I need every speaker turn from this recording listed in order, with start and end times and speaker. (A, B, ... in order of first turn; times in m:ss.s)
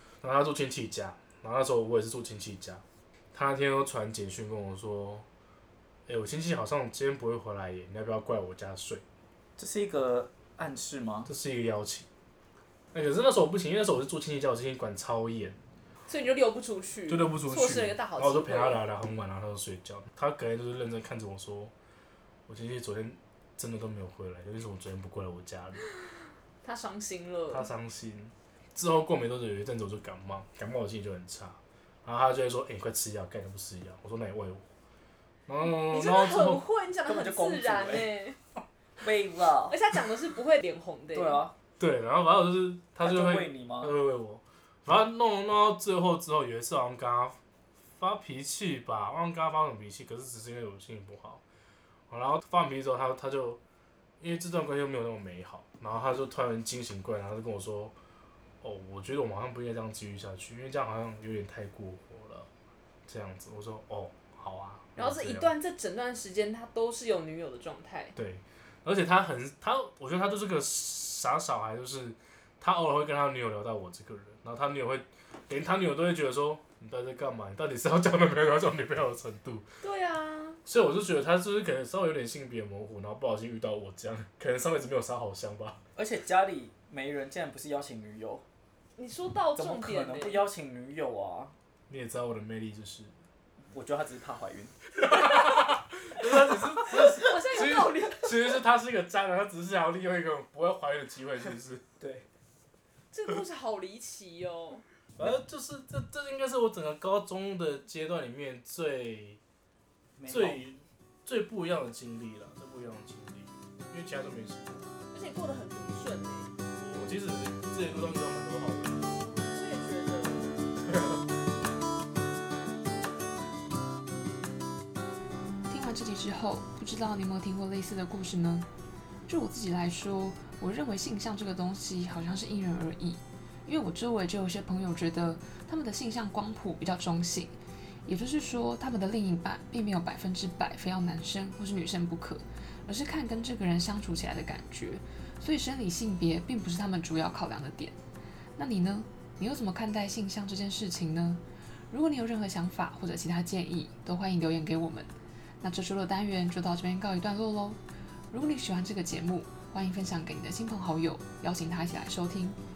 0:00.2-0:05.2 A
0:06.1-0:09.0 A
0:09.6-0:11.3 B
0:11.3-0:12.1 A
0:12.9-0:15.6 A
0:16.1-0:18.8 C
0:17.1-0:21.7 A
0:22.5-0:25.8 A
0:26.6-0:27.7 C
0:27.5-0:34.7 A
0:35.5-0:36.6 A
0:35.6-0:38.4 C
0:37.0-0:38.1 B
0:39.0-0:39.8 B
0:39.7-0:41.4 C
0:41.1-0:41.5 B
0:41.8-0:47.4 A
0:43.0-0:43.9 B
0:48.0-0:51.4 A
0:52.1-0:53.6 A
0:54.2-0:58.0 A
0:58.6-1:02.5 A
1:03.1-1:05.5 A
1:05.0-1:08.1 C
1:08.2-1:19.6 A
1:19.8-1:20.6 C
1:20.7-1:25.8 A
1:26.0-1:28.4 B
1:29.0-1:30.5 C
1:29.6-1:31.5 B
1:31.9-1:33.1 A
1:33.7-1:34.8 B
1:35.0-1:41.8 A
1:36.9-1:38.6 C
1:42.0-1:42.3 B
1:43.1-1:44.8 C
1:45.2-1:49.4 A
1:50.2-1:50.6 B
1:50.3-1:54.9 A
1:55.1-1:56.5 C
1:56.8-1:59.1 A
1:59.3-2:00.6 C
2:05.7-2:08.7 D
2:09.3-2:17.5 D
2:18.0-2:28.0 D
2:28.6-2:37.8 D
2:38.3-2:42.6 D